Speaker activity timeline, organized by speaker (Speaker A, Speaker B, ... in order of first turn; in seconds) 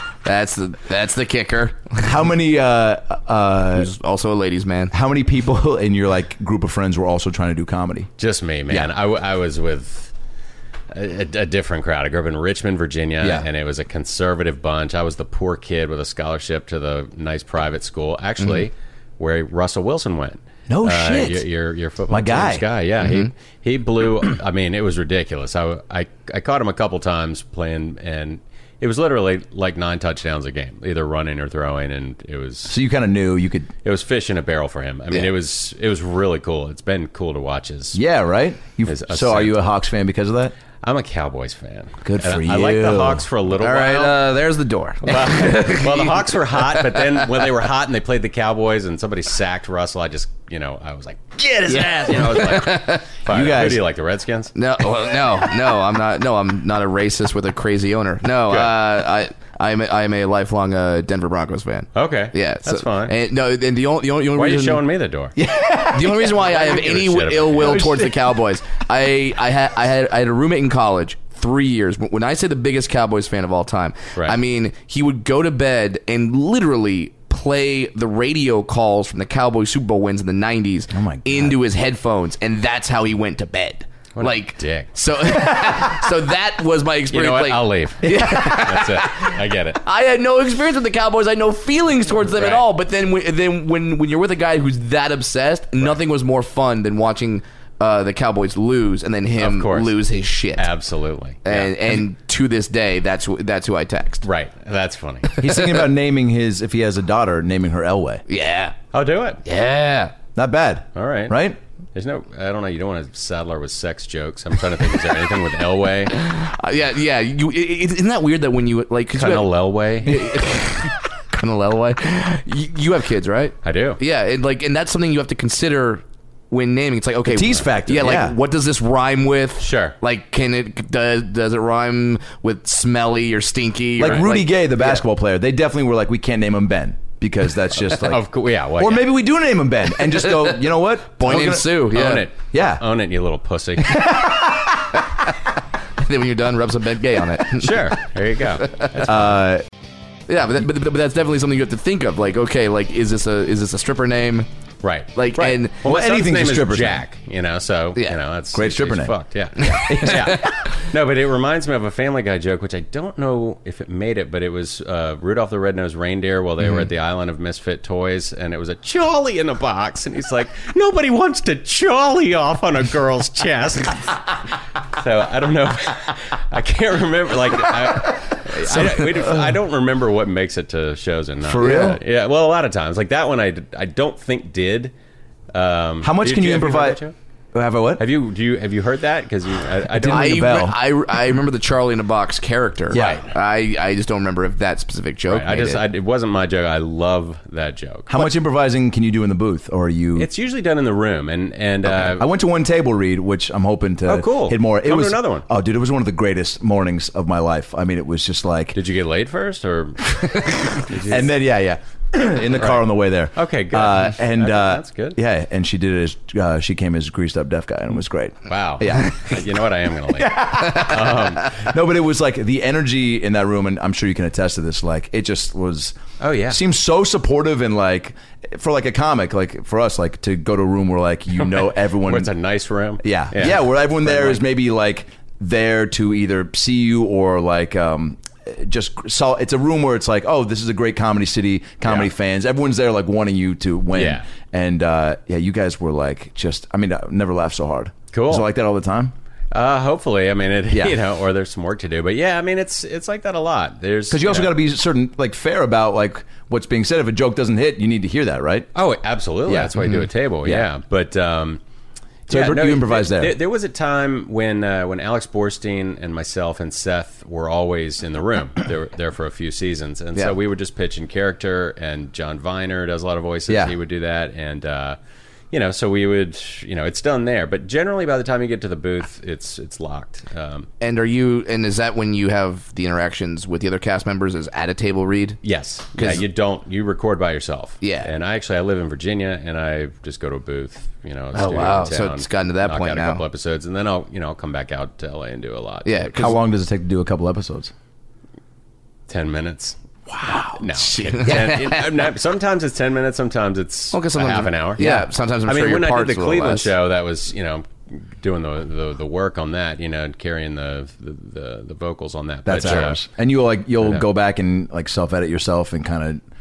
Speaker A: 0.2-2.1, 3.8-4.9, 23.0-23.3, 43.6-47.5, 52.1-53.1, 54.5-64.9, 65.9-100.7, 101.5-104.3, 108.3-108.8, 109.5-110.1, 116.1-135.0, 140.2-140.6, 141.1-142.3, 146.0-148.0, 148.6-148.9, 150.3-154.5, 155.2-155.8, 159.6-160.4, 190.1-195.8, 280.8-285.4, 286.0-286.3, 287.8-288.1, 291.3-293.2, 295.9-296.4, 300.3-302.1, 303.9-306.7
Speaker B: 2.0-3.9, 4.9-8.1, 13.2-13.5, 20.7-21.5, 22.1-22.7, 32.7-33.7, 37.9-40.5, 42.0-43.3, 51.5-52.7, 53.3-53.9, 65.4-66.4, 67.6-68.2, 80.9-81.6, 88.1-88.3, 105.4-108.2, 110.3-111.6, 127.3-128.4, 134.0-141.9, 142.5-142.8, 143.8-145.1, 149.0-149.7, 155.8-157.0, 158.5-159.2, 159.7-160.6, 178.5-179.6, 181.4-182.0, 186.0-187.0, 187.5-188.0, 189.9-190.8, 192.9-193.2, 198.1-200.3, 201.8-208.8, 210.8-219.4, 220.2-232.3, 233.0-249.1, 250.7-251.0, 254.1-258.7, 259.5-260.7, 262.3-263.4, 273.5-273.7, 296.1-297.7, 300.2-300.5, 312.4-316.2
Speaker C: 8.2-10.1, 10.9-32.8, 33.8-38.0, 38.8-39.6, 40.8-44.3, 45.0-54.5, 58.5-58.8, 62.0-63.1, 64.3-65.3, 66.2-68.0, 84.2-84.9, 87.1-89.8, 92.3-92.7, 99.4-100.0, 100.6-101.9, 104.2-105.4, 108.9-109.4, 111.0-111.4, 112.0-116.2, 119.2-120.3, 123.6-124.0, 129.6-129.9, 137.8-139.1, 141.3-144.2, 147.6-149.4, 154.8-174.3, 174.8-184.9, 185.5-187.2, 188.0-190.6, 192.9-193.3, 195.3-198.2, 200.2-202.3, 204.1-205.5, 208.8-211.3, 212.6-215.2, 218.5-221.7, 226.2-226.6, 231.4-234.4, 241.8-242.1, 243.9-244.3, 248.1-248.5, 249.5-254.6, 258.8-261.6, 262.3-275.0, 275.5-280.7, 285.4-296.1, 299.1-299.8, 300.6-313.1